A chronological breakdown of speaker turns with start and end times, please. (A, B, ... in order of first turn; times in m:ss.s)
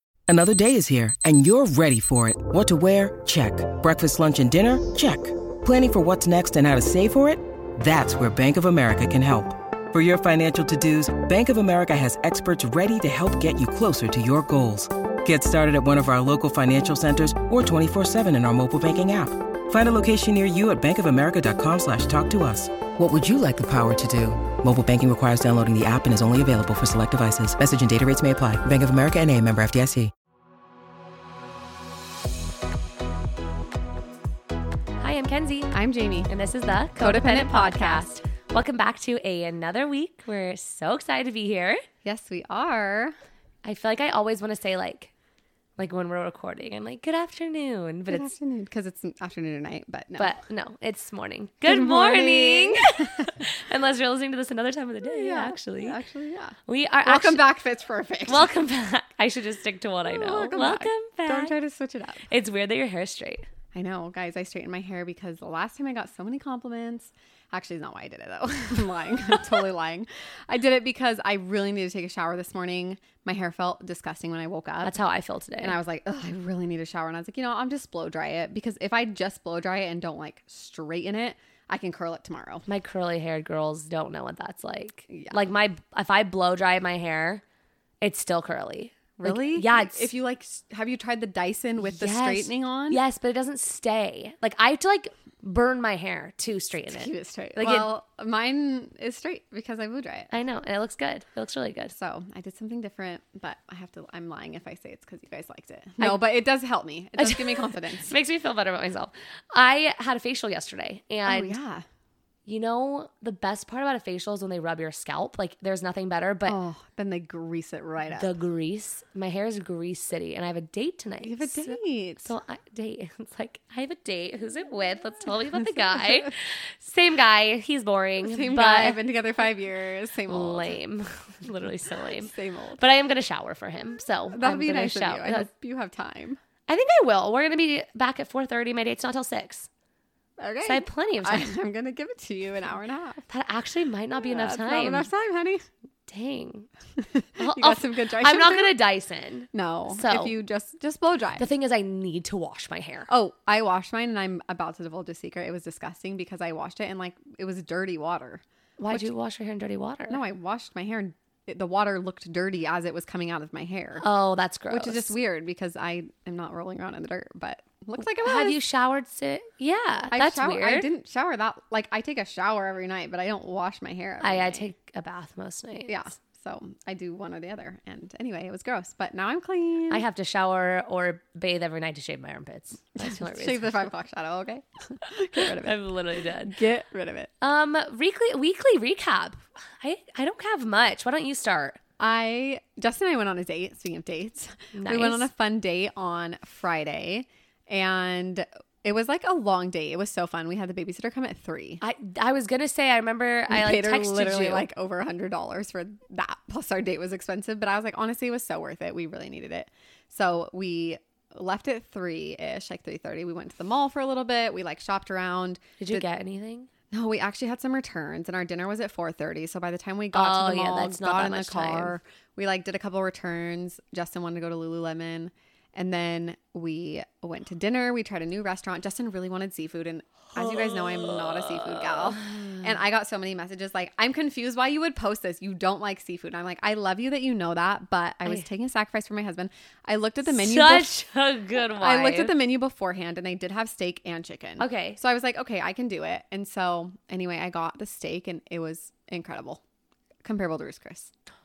0:00.3-0:30.1 A
0:35.0-0:35.7 B
0:35.7-0:36.3 C
0:36.3-0:41.8 B
0:37.0-0:38.1 C
0:42.0-0:43.1 C
0:43.6-0:45.1 B
0:45.8-0:48.3 B
0:48.1-0:50.3 C
0:50.2-0:56.0 B
0:51.6-0:53.4 C
0:55.0-0:58.5 C
0:56.7-0:57.4 B
0:58.3-1:01.5 B
1:00.0-1:02.3 C
1:02.3-1:03.4 B
1:03.7-1:14.9 C
1:14.8-1:15.8 B
1:15.6-1:22.6 C
1:22.7-1:27.4 B
1:25.1-1:25.4 C
1:28.0-1:30.1 B
1:29.2-1:33.0 C
1:31.8-1:37.9 B
1:36.9-1:40.3 C
1:40.3-1:41.9 B
1:41.9-1:48.1 C
1:47.2-1:51.6 B
1:51.2-1:51.8 C
1:52.4-1:56.6 B
1:56.4-1:58.3 C
1:58.1-2:09.0 B
2:01.2-2:02.3 C
2:08.2-2:10.8 C
2:10.3-2:15.5 B
2:12.2-2:12.8 C
2:14.3-2:16.4 C
2:16.7-2:19.7 B
2:20.4-2:23.2 C
2:20.6-2:21.5 B
2:23.3-2:25.1 B
2:24.2-2:25.6 C
2:26.1-2:26.7 B
2:27.0-2:28.8 C
2:27.4-2:30.4 B
2:29.5-2:31.5 C
2:31.4-2:33.1 B
2:33.1-2:39.1 C
2:38.8-2:40.2 B
2:40.1-2:44.0 C
2:44.0-2:45.2 B
2:44.7-2:48.6 C
2:48.0-2:50.9 B
2:50.1-2:54.6 C
2:54.2-2:56.0 B
2:55.9-3:00.0 C
2:59.9-3:03.8 B
3:03.0-3:05.8 C
3:05.4-3:06.6 B
3:06.4-3:07.3 C
3:07.4-3:11.8 B
3:12.0-3:21.8 C
3:14.7-3:15.3 B
3:21.8-3:24.7 B
3:23.5-3:36.0 C
3:35.8-3:36.7 B
3:36.9-4:01.0 C
3:40.1-3:42.0 B
3:50.3-3:52.7 B
4:00.2-4:02.3 B
4:01.6-4:09.6 C
4:04.6-4:05.0 B
4:10.2-4:11.1 C